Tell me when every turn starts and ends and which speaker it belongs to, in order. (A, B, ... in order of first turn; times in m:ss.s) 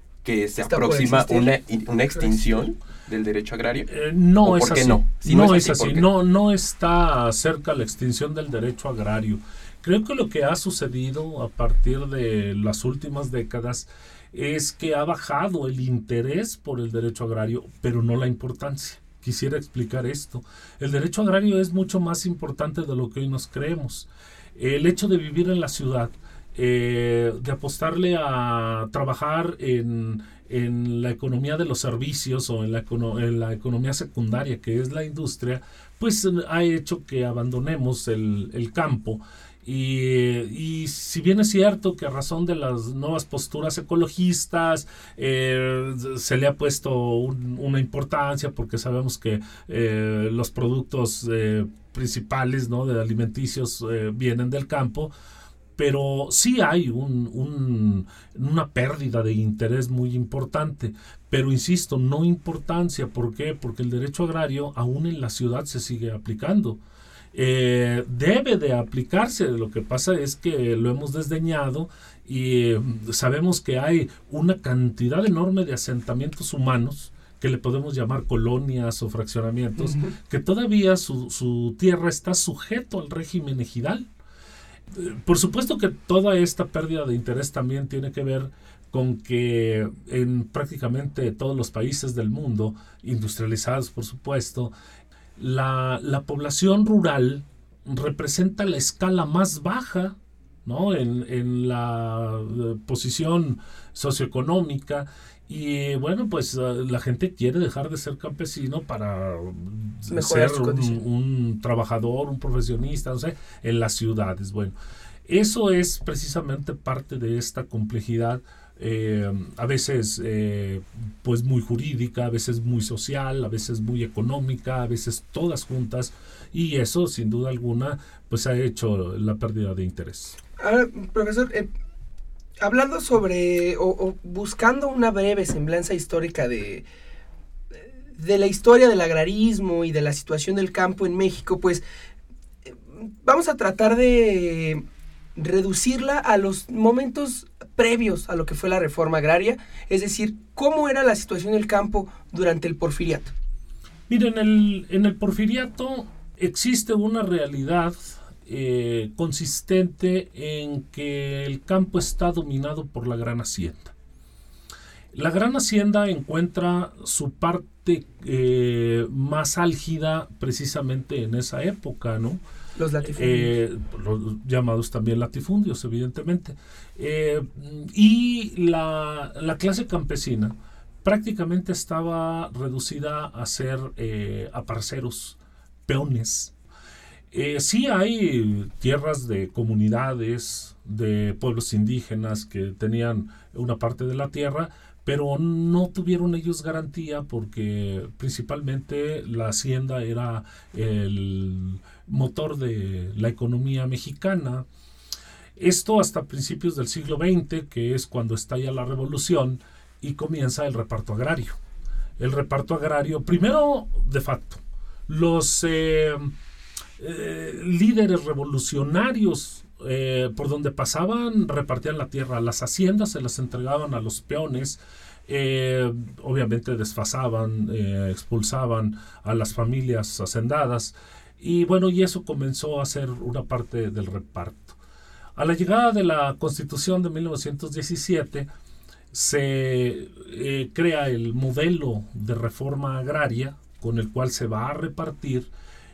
0:00.2-0:03.9 A
0:00.6-0:01.6 B
0:02.1-0:02.6 B
0:03.9-0:55.1 C
0:04.4-0:06.1 A
0:55.8-1:06.8 C
1:07.3-1:24.1 C
1:19.8-1:20.1 B
1:24.9-1:34.7 C
1:35.4-1:54.7 C
1:50.1-1:51.0 B
1:55.3-2:10.4 C
2:10.6-2:11.7 B
2:12.6-2:16.8 B
2:18.2-2:21.8 B
2:22.7-2:24.8 B
2:25.4-2:33.3 B
2:34.1-2:43.9 C
2:45.1-2:52.4 C
2:52.8-2:53.5 B
2:53.0-3:06.5 C
3:07.3-3:24.7 C
3:25.6-3:31.6 C
3:32.2-3:36.3 C
3:37.0-3:54.8 C
3:55.4-3:58.5 C
3:59.1-4:05.5 C